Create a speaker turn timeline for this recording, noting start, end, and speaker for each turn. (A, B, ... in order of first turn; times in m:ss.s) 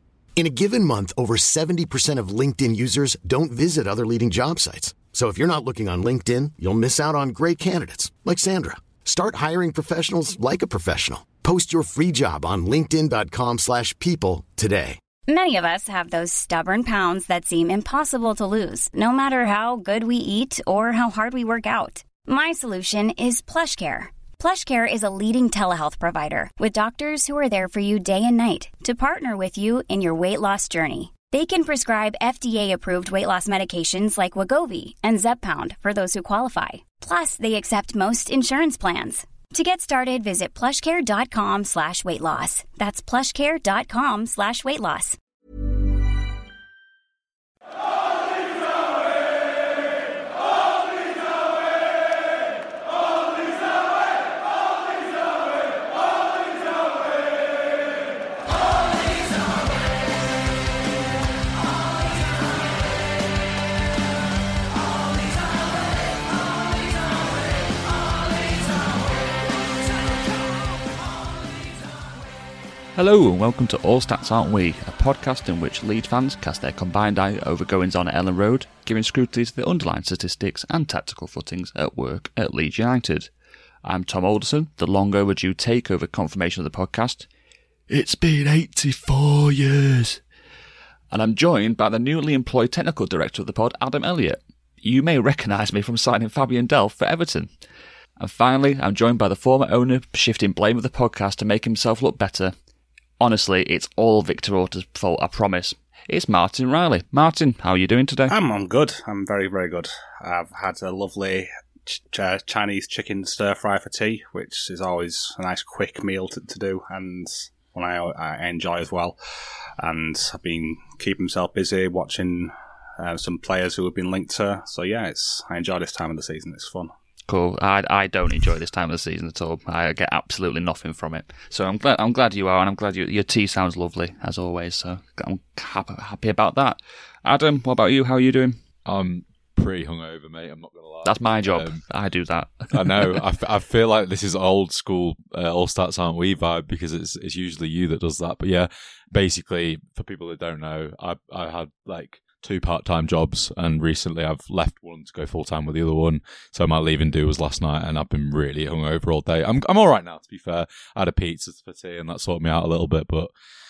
0:00.4-0:15.0 A
0:15.3-0:45.2 B
1:12.9-1:23.3 C
1:23.8-1:27.3 C
1:27.9-1:30.2 C
1:31.1-1:37.5 C
1:38.2-1:42.5 C
1:43.2-1:48.3 C
1:48.3-1:59.2 D
1:59.8-2:06.9 D
2:07.3-2:18.6 C
2:18.8-2:21.8 E
2:21.0-2:23.2 C
2:22.7-2:43.3 E